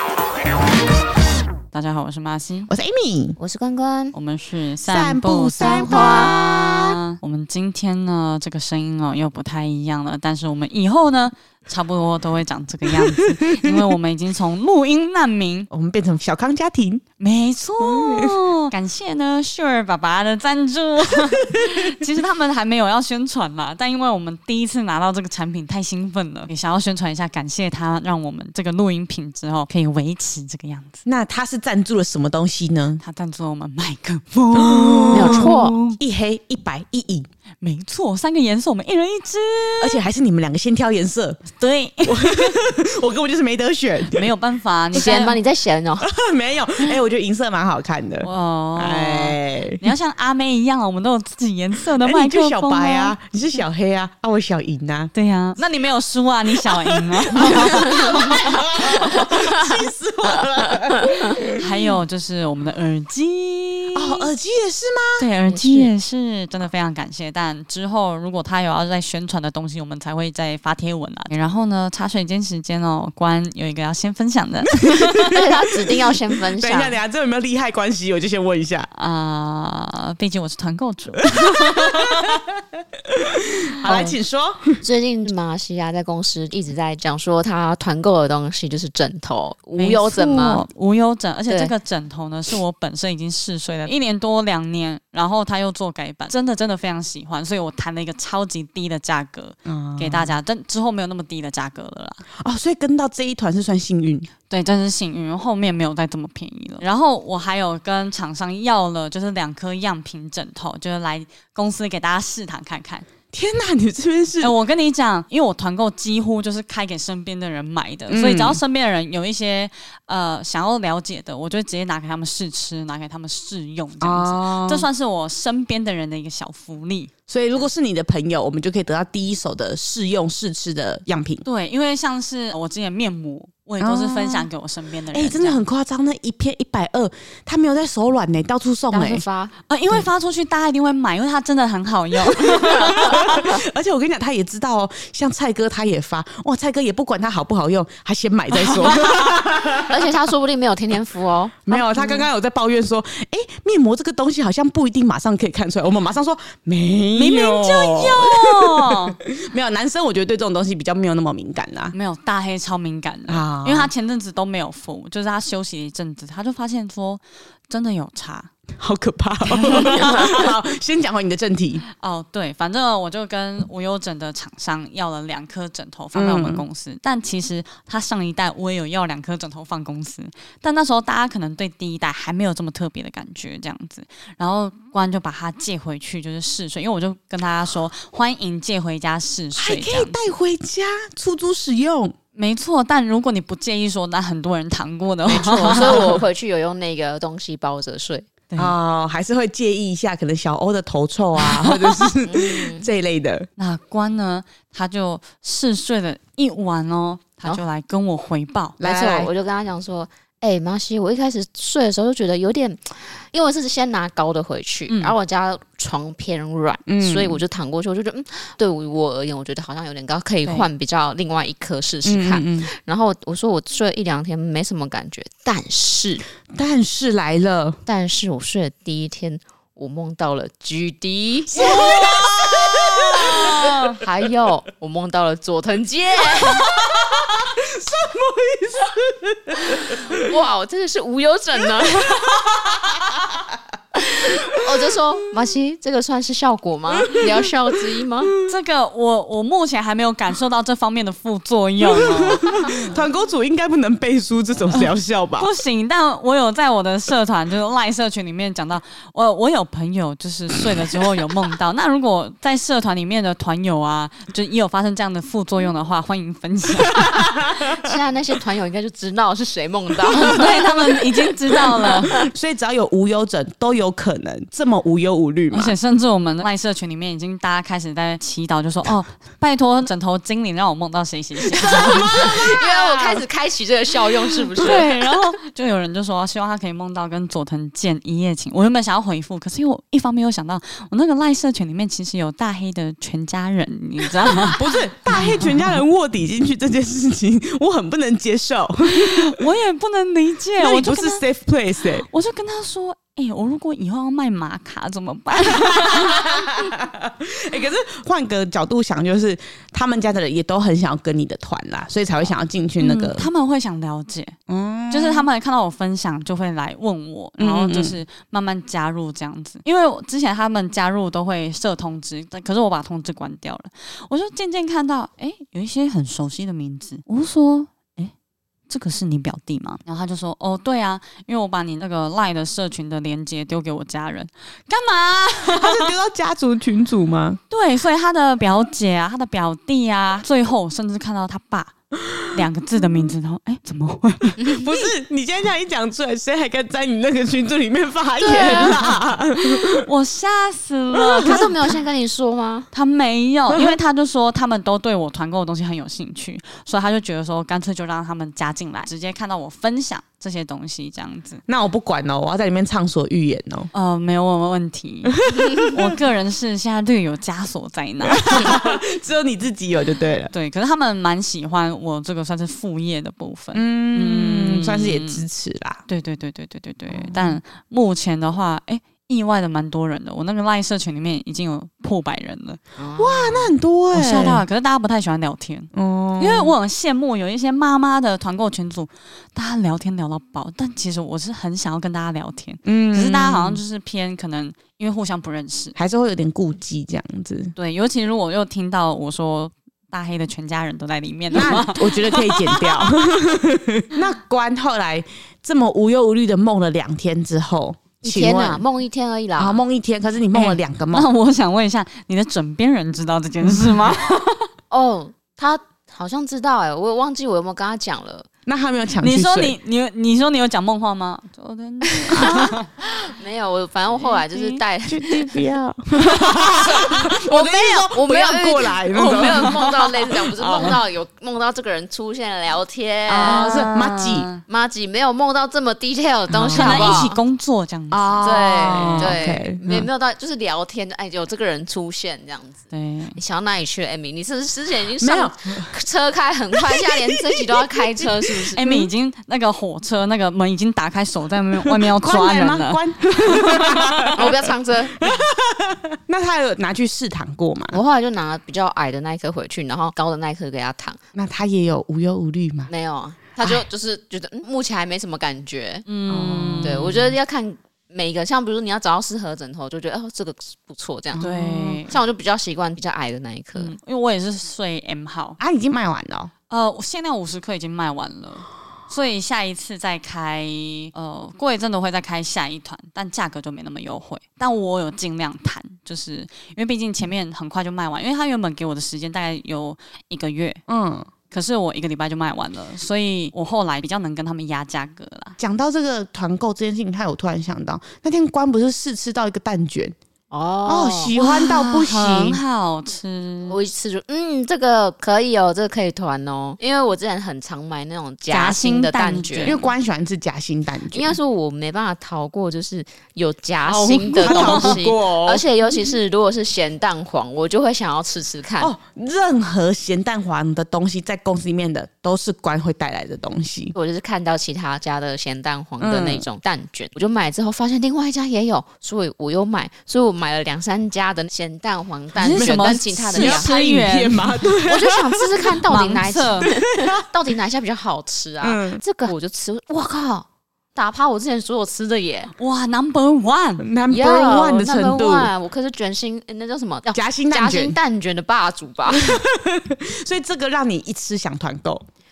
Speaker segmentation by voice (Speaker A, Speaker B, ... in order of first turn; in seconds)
Speaker A: 1.7-2.7, 4.1-15.7, 17.2-31.0, 33.0-36.0, 37.6-40.0, 41.5-42.6, 44.1-45.4, 48.2-53.2, 55.1-58.5, 61.5-64.3, 65.2-75.4, 79.0-82.3, 89.8-102.2, 104.5-113.1, 114.4-127.1, 131.4-135.6, 139.7-143.4, 157.2-159.2, 161.9-168.5, 169.5-170.4, 171.9-190.2, 192.4-196.2, 201.4-202.1, 203.6-208.8, 214.9-215.2, 231.6-232.2, 233.4-234.0, 248.4-252.9, 254.7-267.1, 270.3-272.2, 275.5-282.5, 284.6-295.8, 298.9-301.2, 302.0-306.4, 312.8-314.4, 314.9-328.1, 328.7-335.9, 337.5-341.7, 342.3-344.4, 348.3-351.5, 352.7-361.4, 363.7-368.7, 370.3-375.2, 375.9-382.6, 383.9-395.8, 397.6-403.1, 410.3-414.5, 419.0-422.7, 424.0-424.6, 433.2-434.4, 436.6-439.2, 442.7-443.2, 448.6-454.1, 465.9-467.1, 471.2-472.0, 473.6-475.4, 476.5-490.6, 491.3-495.4, 501.2-503.6, 508.3-509.6, 513.7-514.8, 532.2-534.5, 535.7-536.5, 542.4-543.7
Speaker B: 2.7-3.4, 4.8-7.0, 12.9-13.9, 15.7-17.0, 17.8-18.4, 31.1-33.0, 34.5-37.3, 39.8-41.4, 42.0-44.3, 46.0-49.9, 52.0-55.1, 56.6-61.9, 63.9-65.3, 75.1-75.5, 76.6-78.9, 81.4-82.5, 83.1-84.8, 99.7-100.4, 102.3-104.3, 113.3-114.5, 118.1-118.6, 124.0-124.9, 127.3-131.4, 133.8-134.5, 135.1-139.2, 142.2-150.0, 151.7-161.9, 163.3-163.9, 168.8-171.9, 176.1-176.6, 189.6-192.2, 195.8-196.1, 198.6-203.5, 208.8-209.3, 216.9-217.4, 222.1-222.7, 226.5-227.8, 231.5-234.0, 236.5-240.3, 241.8-243.5, 246.9-248.5, 251.8-255.5, 266.9-267.8, 270.2-270.4, 271.8-275.8, 281.6-283.2, 284.6-284.9, 294.4-299.5, 300.6-302.1, 305.3-313.3, 314.5-315.3, 317.4-318.0, 335.5-337.4, 342.0-342.4, 344.4-349.9, 350.9-351.5, 353.5-353.8, 361.5-363.7, 365.2-366.0, 368.0-370.3, 373.5-375.9, 376.9-377.4, 383.0-384.4, 385.7-386.5, 392.7-393.6, 395.8-397.6, 401.3-408.6, 409.4-411.1, 413.4-414.0, 418.5-419.6, 424.9-430.8, 433.1-434.3, 436.3-437.1, 437.9-439.9, 445.0-445.8, 446.6-448.9, 451.6-457.8, 461.1-462.7, 466.1-467.0, 471.1-471.8, 475.4-476.3, 490.7-491.1, 495.4-500.0, 500.7-502.4, 509.4-511.1, 514.2-515.4, 518.6-523.7, 525.8-526.2, 532.3-535.6, 536.5-537.0, 538.4-538.8, 543.6-545.3, 546.9-547.8, 548.9-551.9
Speaker C: 3.4-4.2, 5.6-6.3, 35.1-35.8, 44.9-46.1, 57.8-58.4, 59.1-59.8, 60.9-61.4, 65.5-65.9, 75.3-77.0, 84.8-90.6, 138.9-139.5, 142.8-143.4, 149.7-152.2, 195.2-198.3, 202.2-202.9, 208.8-226.2, 227.9-232.0, 233.3-236.8, 239.7-242.4, 244.0-248.3, 267.7-271.9, 281.6-285.0, 344.4-344.8, 348.2-348.8, 351.2-352.7, 382.8-383.5, 408.0-409.6, 414.7-418.3, 421.9-425.4, 426.0-433.7, 434.5-437.2, 438.2-442.6, 443.1-448.6, 454.1-455.1, 457.7-461.0, 462.7-465.9, 466.6-473.7, 500.3-501.1, 503.5-509.6, 510.9-518.7, 523.7-533.5, 534.6-542.3, 543.9-549.2